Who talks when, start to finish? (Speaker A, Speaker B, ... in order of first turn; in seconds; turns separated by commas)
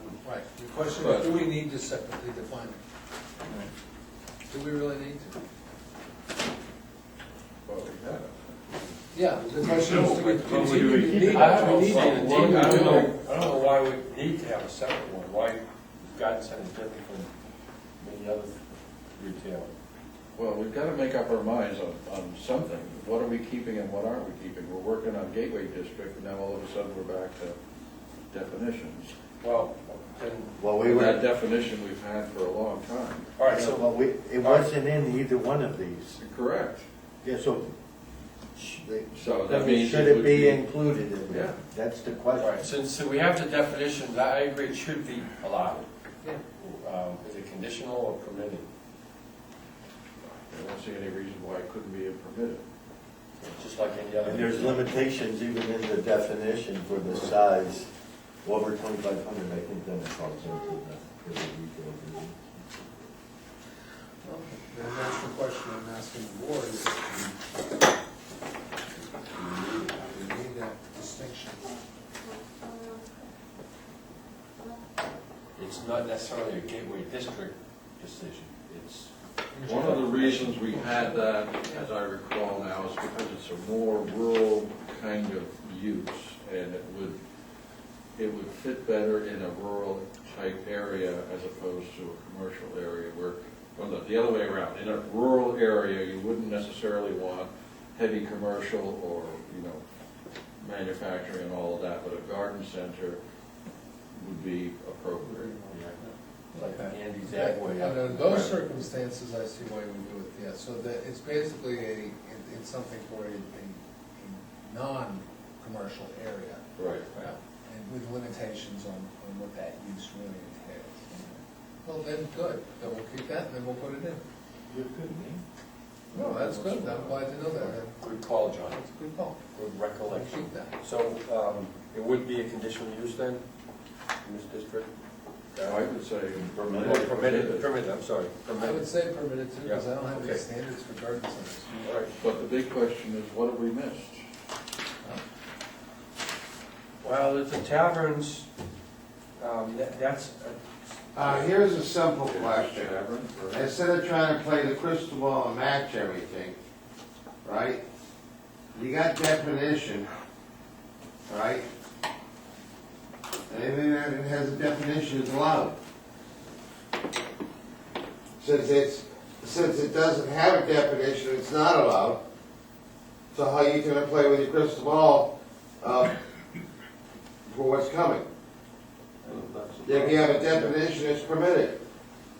Speaker A: 0.2-2.8, Speaker B: 1.0-1.4, Speaker A: 4.5-5.3, Speaker B: 7.7-8.6, Speaker A: 9.1-12.8, Speaker B: 9.7-13.6, Speaker C: 10.6-11.7, Speaker D: 10.6-17.3, Speaker D: 18.0-18.6, Speaker D: 19.1-19.7, Speaker B: 20.3-27.6, Speaker B: 28.3-29.1, Speaker D: 29.4-30.5, Speaker C: 30.6-31.2, Speaker B: 30.8-33.3, Speaker D: 33.4-34.7, Speaker C: 33.5-36.2, Speaker B: 36.2-36.8, Speaker C: 37.2-37.7, Speaker C: 38.5-42.6, Speaker B: 39.1-40.6, Speaker B: 41.3-41.6, Speaker D: 42.4-45.8, Speaker D: 46.6-48.7, Speaker B: 50.2-52.6, Speaker D: 53.4-55.0, Speaker C: 54.2-57.9, Speaker C: 58.4-62.5, Speaker A: 64.2-67.3, Speaker D: 69.2-69.9, Speaker A: 69.8-71.7, Speaker D: 75.6-79.1, Speaker A: 79.5-81.9, Speaker B: 79.6-87.2, Speaker D: 79.7-80.6, Speaker B: 88.2-99.8, Speaker B: 100.6-103.2, Speaker B: 104.1-105.5, Speaker A: 106.5-124.2, Speaker D: 106.6-108.5, Speaker B: 116.8-117.1, Speaker C: 124.7-125.4, Speaker A: 126.1-129.4, Speaker D: 126.1-127.2, Speaker D: 128.0-128.8, Speaker D: 129.5-133.4, Speaker A: 130.0-130.8, Speaker D: 134.2-134.9, Speaker D: 135.5-135.8, Speaker B: 135.6-137.7, Speaker C: 136.3-137.1, Speaker D: 136.8-138.8, Speaker A: 138.6-142.0, Speaker D: 139.6-140.4, Speaker D: 141.8-142.2, Speaker B: 142.2-144.2, Speaker D: 147.0-148.5, Speaker D: 149.4-150.6, Speaker E: 151.1-152.9, Speaker D: 151.2-151.4, Speaker B: 152.2-153.7, Speaker E: 153.5-156.6, Speaker E: 157.4-157.8, Speaker E: 158.7-160.1, Speaker E: 161.3-161.7, Speaker E: 163.5-165.8, Speaker E: 168.4-172.2, Speaker E: 173.3-176.1, Speaker E: 177.5-178.2, Speaker B: 179.2-180.7, Speaker E: 179.8-181.8